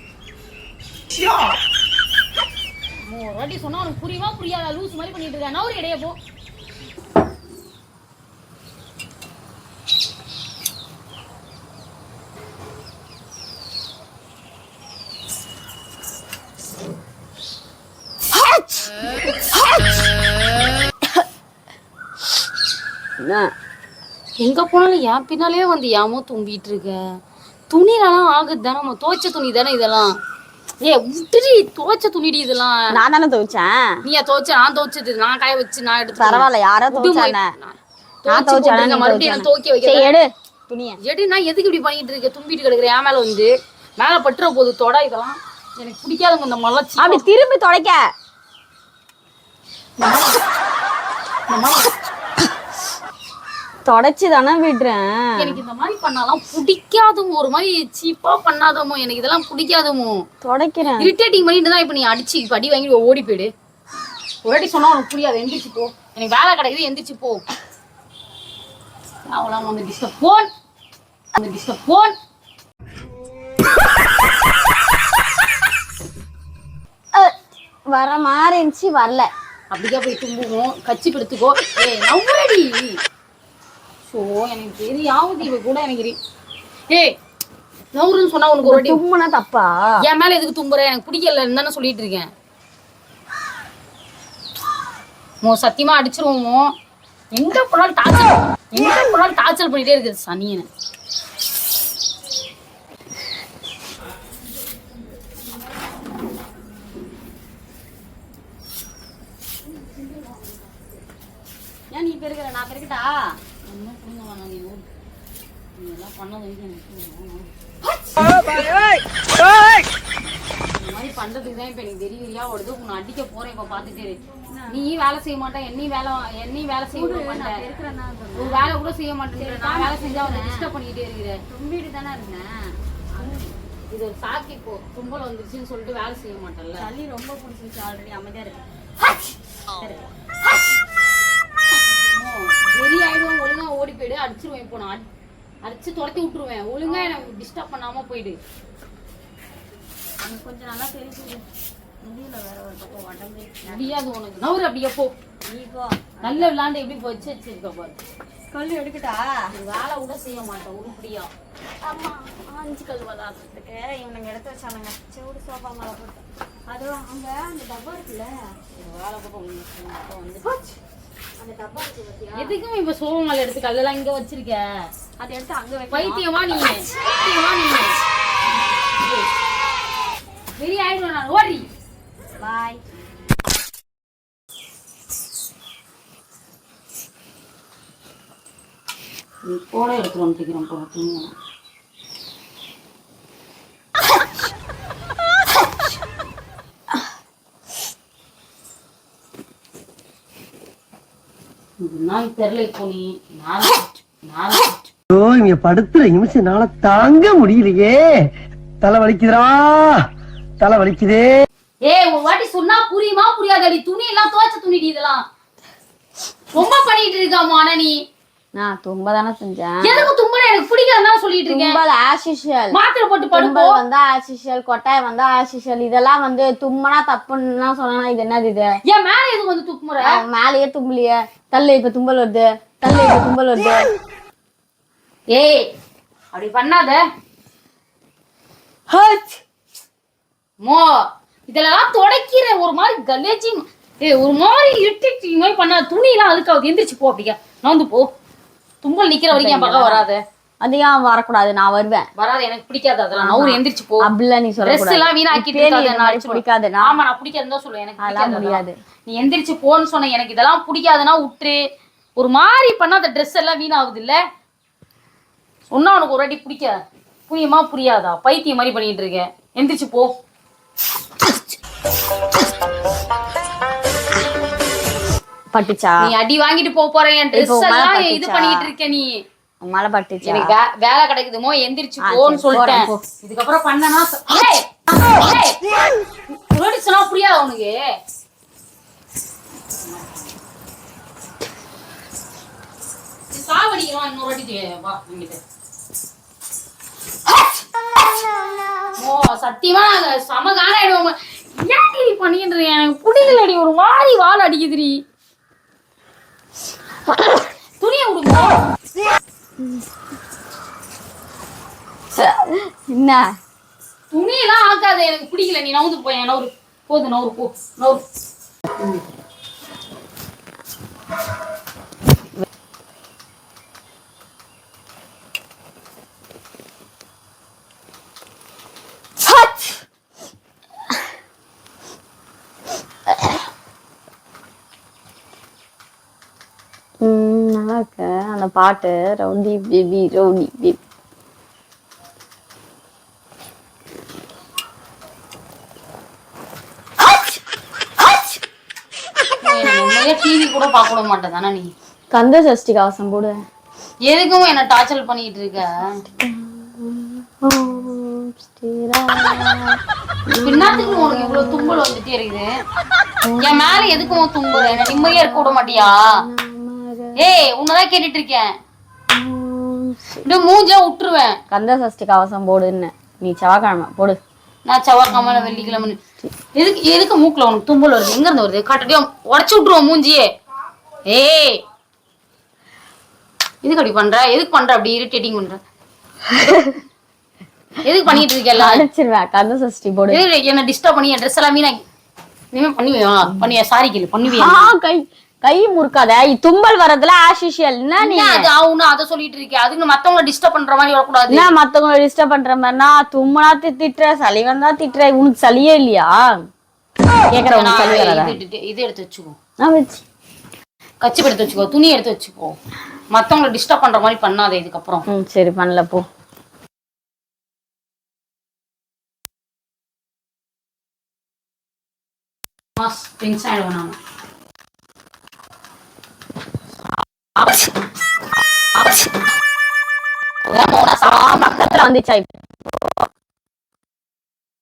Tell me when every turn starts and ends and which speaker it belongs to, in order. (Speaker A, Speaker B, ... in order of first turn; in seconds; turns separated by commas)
Speaker A: 3.0-6.2, Speaker B: 18.3-19.6, Speaker B: 23.2-23.5, Speaker A: 24.4-27.0, Speaker A: 27.7-30.1, Speaker A: 30.8-32.9, Speaker B: 32.9-34.0, Speaker A: 34.0-40.1, Speaker B: 36.2-37.5, Speaker B: 38.3-41.0, Speaker A: 41.0-47.3, Speaker B: 47.0-48.0, Speaker A: 50.0-50.4, Speaker A: 51.5-51.9, Speaker B: 53.9-55.6, Speaker A: 55.4-60.2, Speaker B: 60.4-61.1, Speaker A: 61.0-63.5, Speaker A: 64.4-67.4, Speaker A: 69.3-70.5, Speaker A: 71.3-72.1, Speaker B: 77.9-79.3, Speaker A: 79.7-83.0, Speaker A: 84.1-86.2, Speaker A: 87.9-89.0, Speaker B: 88.6-89.8, Speaker A: 90.0-92.3, Speaker A: 95.4-96.7, Speaker A: 97.3-100.7, Speaker A: 109.7-110.8, Speaker B: 111.9-113.4, Speaker A: 113.7-114.9, Speaker A: 115.8-117.5, Speaker B: 118.0-118.4, Speaker A: 120.7-127.6, Speaker B: 124.3-124.9, Speaker B: 126.9-128.8, Speaker A: 128.3-131.4, Speaker B: 129.4-130.7, Speaker B: 131.5-133.5, Speaker A: 133.9-136.9, Speaker B: 136.8-140.5, Speaker A: 142.1-145.1, Speaker A: 145.6-148.4, Speaker B: 146.8-147.3, Speaker B: 150.2-151.4, Speaker B: 152.0-154.1, Speaker A: 153.7-155.1, Speaker B: 155.5-156.5, Speaker A: 156.2-158.0, Speaker B: 158.5-159.5, Speaker A: 159.5-161.3, Speaker B: 161.8-168.6, Speaker A: 168.7-170.6, Speaker B: 171.4-172.6, Speaker A: 172.3-174.7, Speaker B: 175.2-177.9, Speaker A: 175.9-176.9, Speaker A: 179.0-179.3, Speaker A: 180.6-181.7, Speaker B: 182.4-182.8, Speaker A: 189.4-191.3, Speaker A: 201.8-204.9, Speaker C: 205.1-208.0, Speaker C: 208.8-210.0, Speaker C: 210.6-211.4, Speaker A: 211.8-215.2, Speaker A: 216.5-217.9, Speaker B: 218.6-220.1, Speaker A: 219.8-221.8, Speaker B: 221.5-222.8, Speaker A: 222.7-223.8, Speaker B: 223.3-228.8, Speaker A: 228.8-230.1, Speaker B: 230.0-233.9, Speaker A: 235.3-235.7, Speaker A: 236.3-237.0, Speaker B: 238.9-239.4, Speaker A: 240.6-240.9, Speaker A: 241.5-248.1, Speaker A: 248.8-250.2, Speaker B: 249.3-250.1, Speaker B: 250.6-252.1, Speaker A: 252.2-254.1, Speaker B: 253.2-257.0, Speaker A: 254.6-261.6, Speaker B: 258.0-258.7, Speaker A: 262.2-264.2, Speaker A: 265.7-266.8, Speaker A: 267.3-270.1, Speaker B: 275.5-276.1, Speaker A: 276.0-279.1, Speaker B: 277.3-278.7, Speaker B: 279.6-280.5, Speaker A: 280.2-285.6, Speaker B: 282.0-283.0, Speaker A: 286.3-287.8, Speaker A: 289.9-290.3, Speaker A: 293.3-295.4, Speaker A: 298.9-305.0, Speaker A: 307.8-308.6, Speaker B: 309.6-309.9, Speaker B: 312.1-313.3, Speaker A: 314.1-318.0, Speaker B: 329.2-329.8, Speaker B: 333.1-333.4, Speaker B: 337.0-340.8, Speaker B: 348.0-348.3, Speaker A: 349.4-351.7, Speaker B: 352.1-353.4, Speaker A: 354.1-356.0, Speaker B: 356.0-361.8, Speaker A: 360.4-362.5, Speaker B: 363.2-367.4, Speaker A: 363.4-366.2, Speaker A: 367.1-368.5, Speaker B: 369.1-370.2, Speaker A: 370.2-371.4, Speaker B: 371.5-374.2, Speaker A: 374.7-376.0, Speaker B: 375.1-376.3, Speaker A: 376.5-380.3, Speaker A: 381.1-381.6, Speaker A: 383.6-385.6, Speaker B: 386.3-386.8, Speaker A: 387.8-388.8, Speaker B: 388.6-390.2, Speaker A: 390.1-391.8, Speaker A: 392.5-394.7, Speaker B: 394.2-398.5, Speaker A: 398.0-401.5, Speaker B: 401.3-406.2, Speaker B: 407.3-408.4, Speaker A: 407.5-409.4, Speaker B: 409.6-410.0, Speaker A: 411.0-412.6, Speaker A: 413.1-415.0, Speaker B: 415.1-416.0, Speaker A: 422.8-423.9, Speaker A: 427.4-427.8, Speaker A: 428.7-429.1, Speaker A: 430.5-431.8, Speaker B: 431.0-433.0